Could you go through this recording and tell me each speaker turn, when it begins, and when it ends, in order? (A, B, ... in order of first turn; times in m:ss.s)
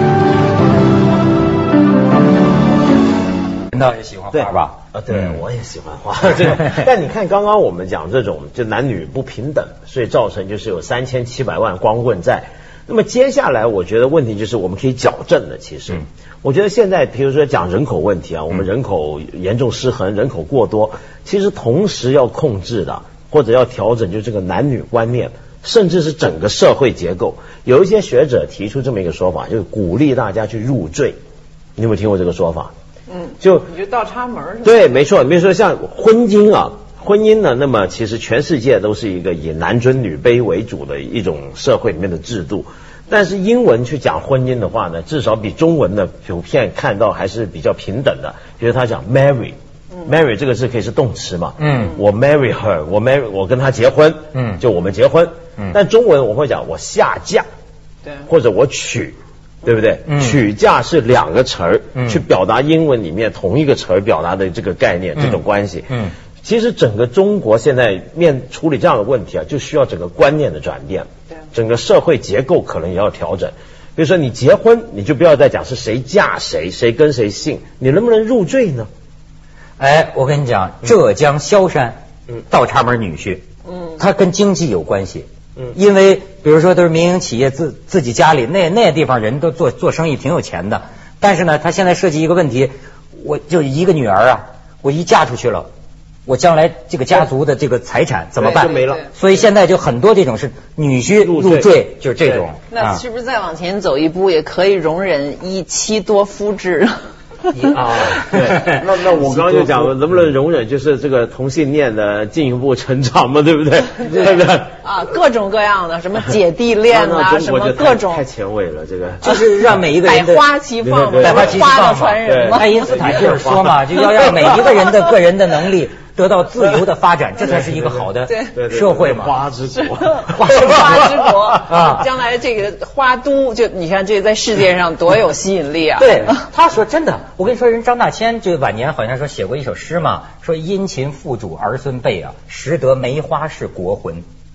0:03.7-0:05.4 A
0:04.3-0:31.2 B
0:06.4-0:06.9 A
0:31.8-0:32.7 B
0:33.1-0:35.0 C
0:33.4-0:33.7 B
0:34.6-0:57.5 B
0:51.6-0:52.0 A
0:54.3-0:54.6 A
0:58.3-1:18.9 B
1:00.1-1:00.4 A
1:02.0-1:02.2 A
1:05.2-1:06.1 A
1:19.8-1:23.5 A
1:24.0-1:35.7 A
1:36.3-1:43.0 A
1:38.4-1:39.0 B
1:38.4-1:39.1 C
1:41.2-1:41.8 B
1:42.7-1:47.8 C
1:47.5-1:49.9 A
1:48.2-1:54.7 B
1:54.2-1:58.2 C
1:56.9-1:59.2 B
1:59.2-2:00.5 A
1:59.2-1:59.5 C
2:00.0-2:03.4 C
2:00.8-2:01.6 B
2:01.2-2:09.4 A
2:02.2-2:04.5 B
2:07.5-2:11.1 B
2:08.3-2:08.5 C
2:09.7-2:16.4 C
2:10.4-2:12.1 A
2:16.0-2:24.2 A